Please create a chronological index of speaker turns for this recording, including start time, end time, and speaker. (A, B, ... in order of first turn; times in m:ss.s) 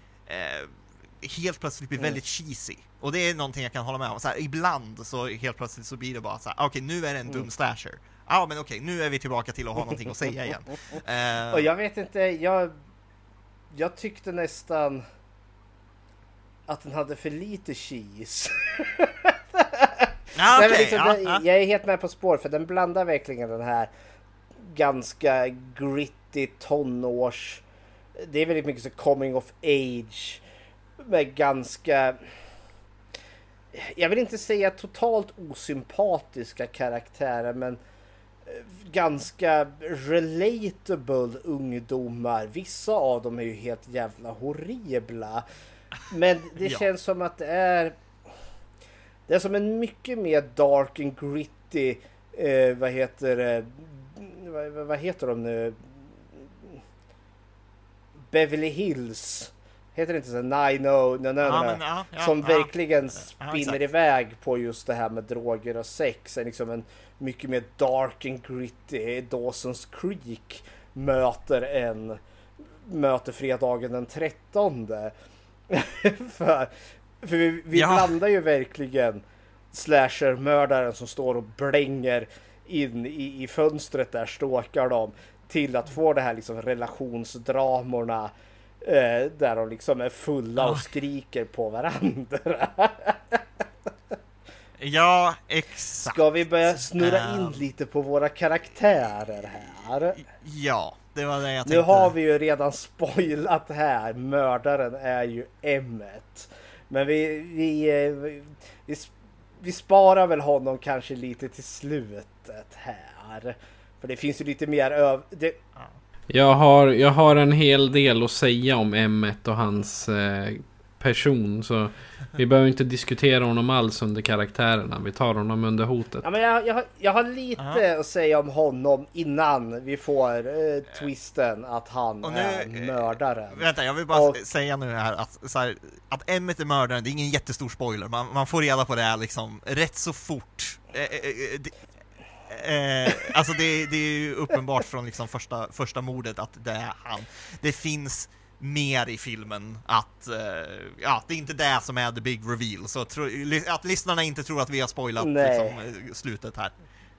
0:00.3-0:11.7 A
0:11.5-0:12.7 B
0:13.7-0:15.0 B
0:16.7-0:23.9 B
0:20.4-0:21.4 A
0:24.6-0:27.6 B
0:28.2-0:30.4 B
0:31.0-0:32.2 B
0:33.7-0:37.8 B
0:38.5-0:45.4 B
0:46.1-0:48.0 B
0:46.6-0:46.9 A
0:49.3-0:56.0 B
0:58.3-1:12.2 B
1:01.4-1:03.8 A
1:12.9-1:15.1 B
1:15.7-1:19.2 B
1:17.7-1:18.1 A
1:19.7-1:33.4 B
1:30.6-1:30.8 A
1:34.8-1:37.6 A
1:36.0-1:40.2 B
1:40.2-1:42.1 A
1:41.7-1:55.6 B
1:56.3-2:06.2 C
2:06.2-2:14.4 B
2:07.6-2:07.8 A
2:12.2-2:21.8 A
2:22.5-2:36.8 A
2:35.2-2:35.8 B